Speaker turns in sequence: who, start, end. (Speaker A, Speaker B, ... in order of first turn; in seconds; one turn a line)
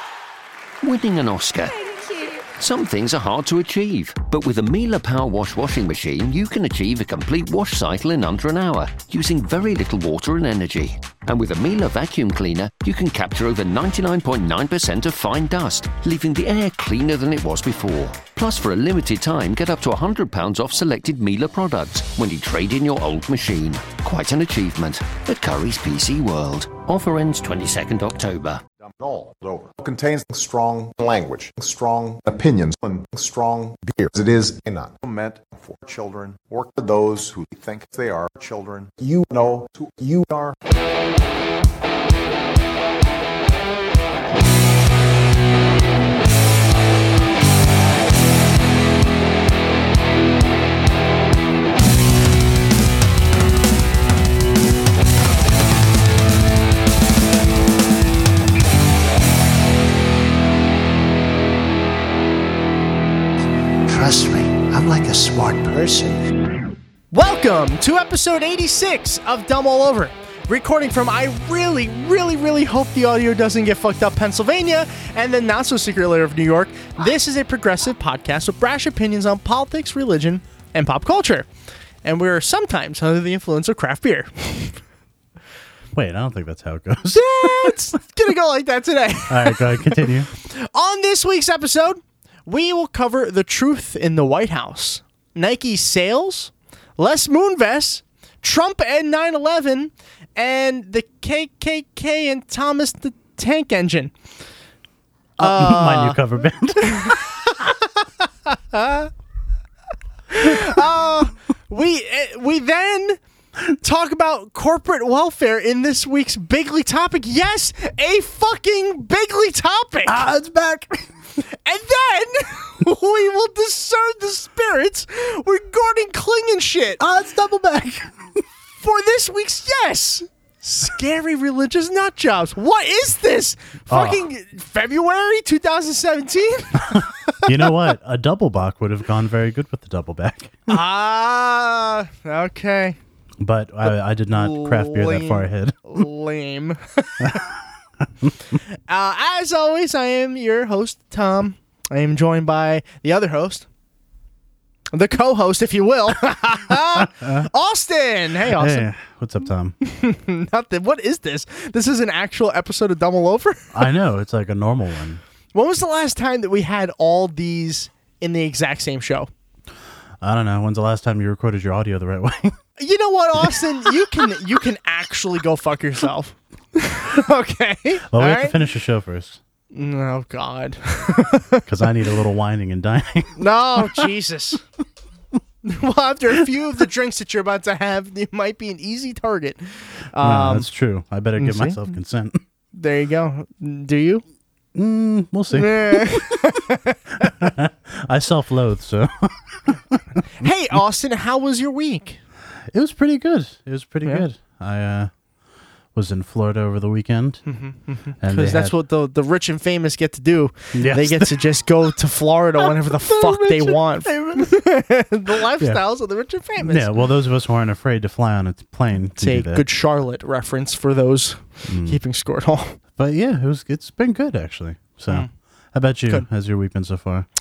Speaker A: 0.8-1.8
Speaker A: 2.6-28.6
Speaker B: 28.8-40.6
Speaker C: 63.9-66.2
Speaker D: 67.1-81.5
Speaker D: 82.0-84.8
Speaker E: 85.9-87.8
Speaker D: 87.1-104.1
Speaker E: 89.3-90.3
Speaker E: 105.4-107.2
Speaker D: 105.4-106.2
Speaker D: 106.8-109.1
Speaker D: 110.3-120.2
Speaker E: 120.0-121.1
Speaker D: 121.5-127.0
Speaker E: 127.0-128.2
Speaker D: 128.8-137.7
Speaker E: 133.9-134.3
Speaker E: 136.9-140.8
Speaker D: 140.7-143.0
Speaker E: 143.4-146.0
Speaker D: 143.9-147.4
Speaker D: 148.9-153.7
Speaker D: 154.9-158.9
Speaker E: 156.7-157.5
Speaker E: 158.5-159.8
Speaker D: 159.8-163.8
Speaker E: 163.7-165.2
Speaker D: 165.5-169.3
Speaker E: 170.2-172.6
Speaker D: 172.8-178.6
Speaker E: 178.1-179.4
Speaker D: 179.7-181.6
Speaker E: 181.7-184.1
Speaker D: 183.4-184.6
Speaker D: 185.6-190.7
Speaker E: 190.2-192.4
Speaker D: 191.4-191.9
Speaker D: 192.7-194.2
Speaker E: 194.8-196.5
Speaker D: 195.5-197.3
Speaker E: 197.2-200.1
Speaker D: 200.4-202.2
Speaker E: 202.7-205.1
Speaker E: 205.9-207.5
Speaker D: 207.5-216.9
Speaker E: 208.2-208.8
Speaker E: 210.7-211.4
Speaker E: 212.6-214.6
Speaker E: 216.6-219.7
Speaker D: 219.2-222.8
Speaker E: 221.7-222.0
Speaker E: 223.0-227.3